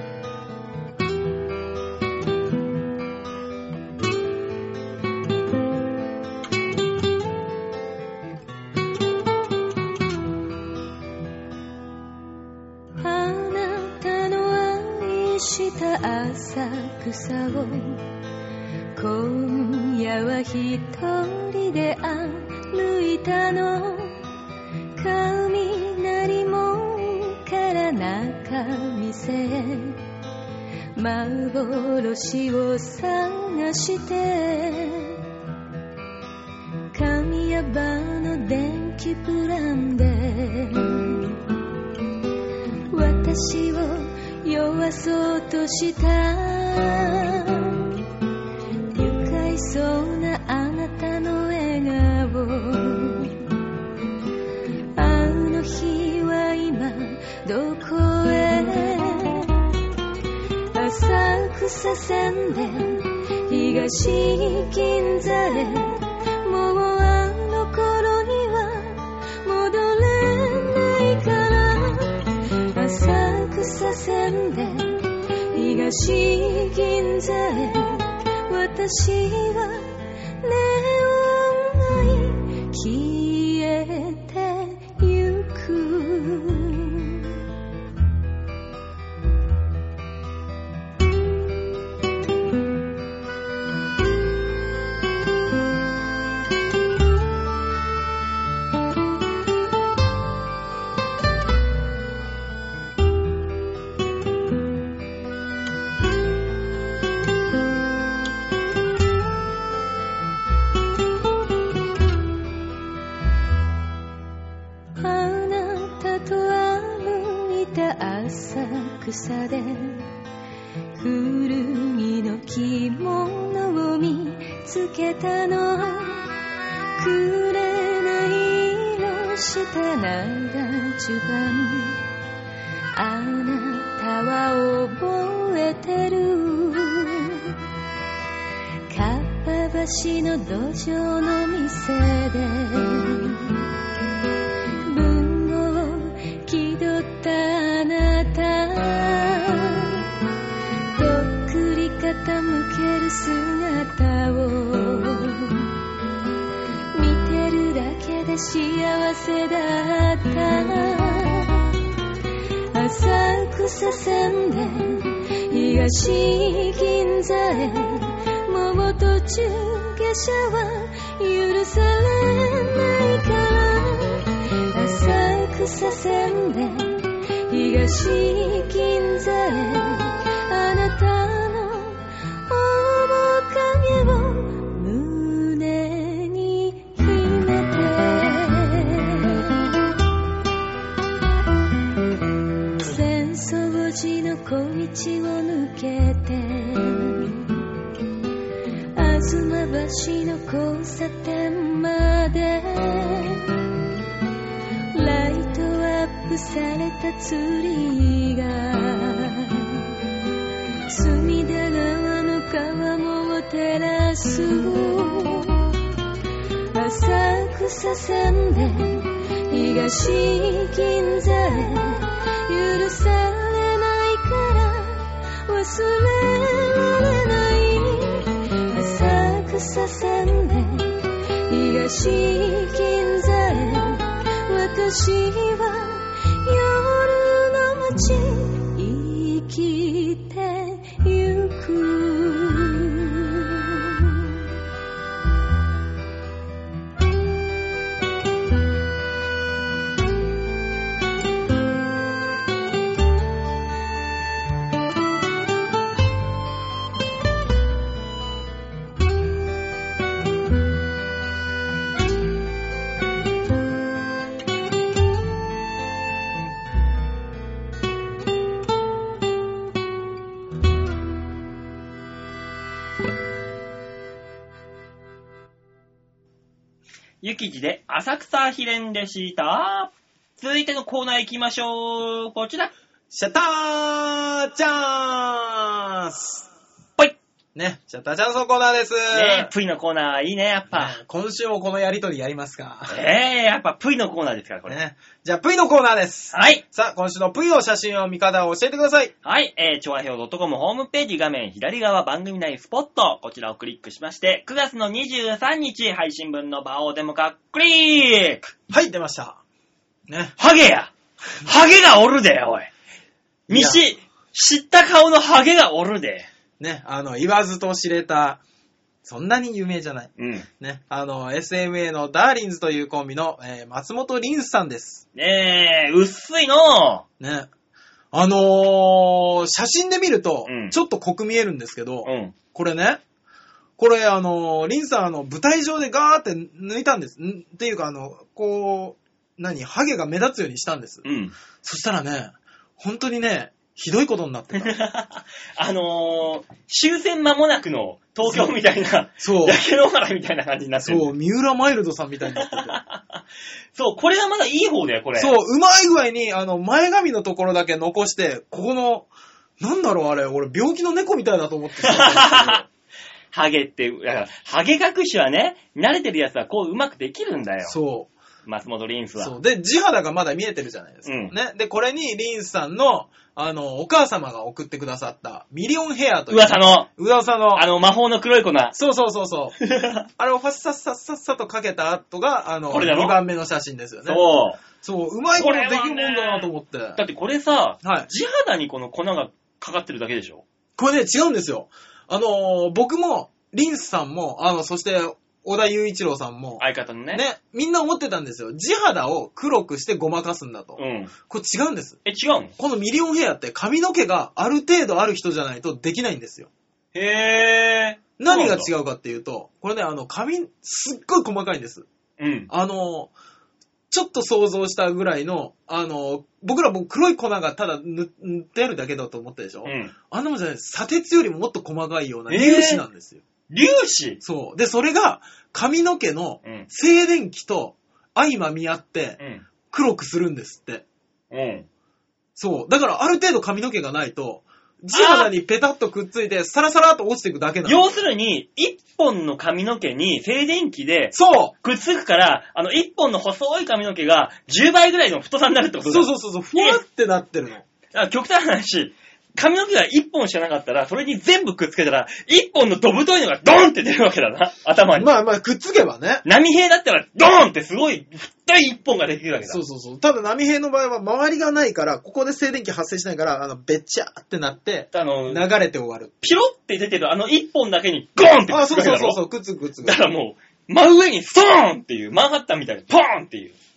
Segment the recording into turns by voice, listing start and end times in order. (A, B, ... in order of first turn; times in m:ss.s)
0:13.0-0:18.0 A
0:19.0-0:24.2 A
0:25.0-0:30.0 A
0:31.0-0:35.2 A
0:36.9-0:41.4 A
0:42.9-0:48.0 A
0:48.9-0:53.4 A
0:55.0-0:59.7 A
1:00.7-1:27.4 A
1:55.0-2:00.1 A
2:01.0-2:06.3 A
2:07.0-2:12.0 A
2:13.0-2:17.6 A
2:18.9-2:23.6 A
2:24.9-2:30.1 A
2:31.0-2:35.7 A
2:36.9-2:41.8 A
2:42.7-3:09.8 A
3:12.8-3:17.6 A
3:19.0-3:23.6 A
3:24.9-3:29.9 A
3:30.9-3:35.8 A
3:36.7-4:04.4 A
4:37.2-4:42.7 B
4:43.1-4:46.5 C
4:47.6-4:49.5 C
4:49.1-4:51.0 B
4:50.7-4:53.0 C
4:52.9-4:54.8 B
4:54.7-4:59.1 C
4:56.3-4:56.6 B
4:59.2-5:08.5 B
5:08.7-5:09.4 C
5:10.1-5:10.4 C
5:10.4-5:12.7 B
5:13.5-5:13.8 C
5:13.5-5:16.3 B
5:16.6-5:18.4 C
5:19.0-5:25.0 C
5:20.2-5:20.5 B
5:25.2-5:27.0 B
5:27.2-5:27.5 C
5:28.1-5:33.0 C
5:30.5-5:30.8 B
5:32.0-5:32.3 B
5:33.8-5:41.0 C
5:41.0-5:41.4 B
5:41.6-5:44.7 C
5:44.6-5:51.1 B
5:48.3-5:48.6 C
5:49.2-5:49.6 C
5:50.8-5:52.8 C
5:52.4-5:53.2 B
5:53.8-5:55.4 B
5:55.2-6:02.7 C
6:01.8-6:02.6 B
6:03.3-6:07.8 B
6:07.7-6:08.1 C
6:08.5-6:09.4 B
6:09.2-6:17.7 C
6:11.0-6:11.4 B
6:16.3-6:16.9 B
6:17.5-6:18.8 B
6:18.7-6:19.6 C
6:19.6-6:20.1 B
6:20.2-6:24.2 C
6:22.7-6:23.2 B
6:24.1-6:24.6 B
6:24.8-6:27.0 C
6:25.4-6:30.4 B
6:27.8-6:28.1 C
6:30.8-6:42.0 C
6:36.6-6:37.2 B
6:40.8-6:41.1 B
6:42.0-6:42.6 B
6:42.6-6:46.5 C
6:46.9-6:48.7 B
6:48.2-6:51.9 C
6:52.2-6:52.5 B
6:52.5-6:53.1 C
6:53.9-7:03.2 C
6:59.6-6:59.9 B
7:02.3-7:02.8 B
7:03.5-7:04.2 B
7:04.2-7:10.8 C
7:09.2-7:09.4 B
7:11.3-7:11.7 B
7:12.4-7:18.0 C
7:14.9-7:15.3 B
7:17.6-7:26.8 B
7:21.1-7:21.5 C
7:25.9-7:27.7 C
7:27.9-7:35.1 B
7:35.0-7:36.2 C
7:36.2-7:39.6 B
7:39.4-7:46.2 C
7:44.9-7:45.4 B
7:46.2-7:49.2 B
7:48.5-7:50.0 C
7:49.8-7:53.6 B